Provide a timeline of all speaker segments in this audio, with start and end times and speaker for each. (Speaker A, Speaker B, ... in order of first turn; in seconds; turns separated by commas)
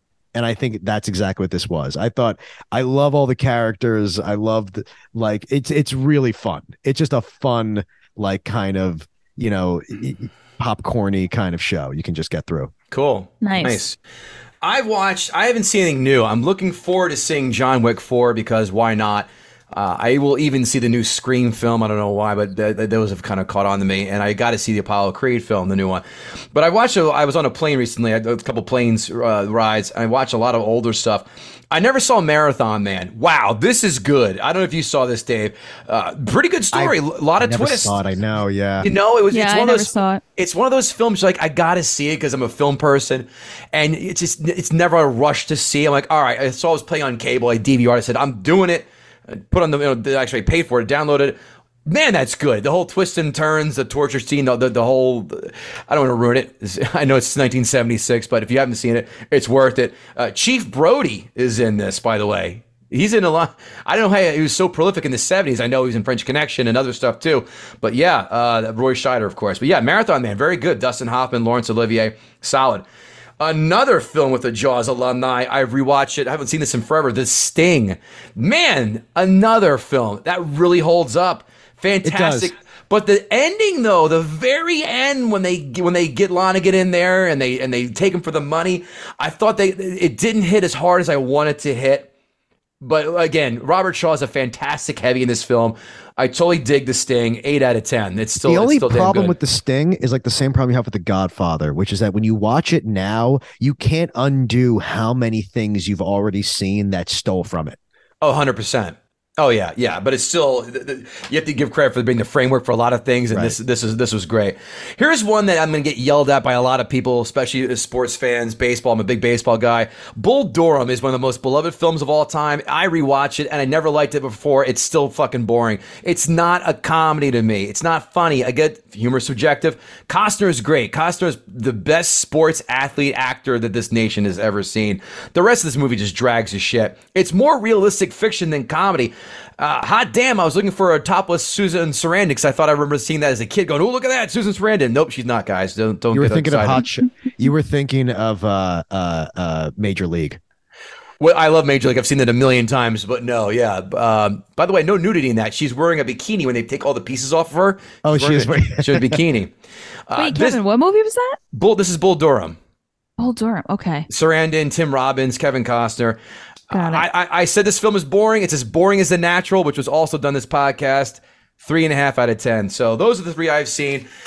Speaker A: 0.3-12.7, Speaker B: 12.9-14.0, Speaker C: 13.4-13.8, Speaker B: 14.6-38.0, Speaker A: 36.7-38.9, Speaker B: 38.8-72.9, Speaker C: 39.3-40.2, Speaker B: 73.4-92.1, Speaker A: 82.0-82.5, Speaker B: 92.8-99.4, Speaker A: 98.5-107.8, Speaker B: 108.2-146.8, Speaker A: 113.3-113.6, Speaker A: 146.1-150.4, Speaker B: 151.2-159.5, Speaker A: 158.0-159.2, Speaker B: 160.1-160.6, Speaker C: 160.2-161.4, Speaker B: 161.5-162.6, Speaker C: 163.2-164.1, Speaker B: 164.1-174.1, Speaker C: 166.7-167.1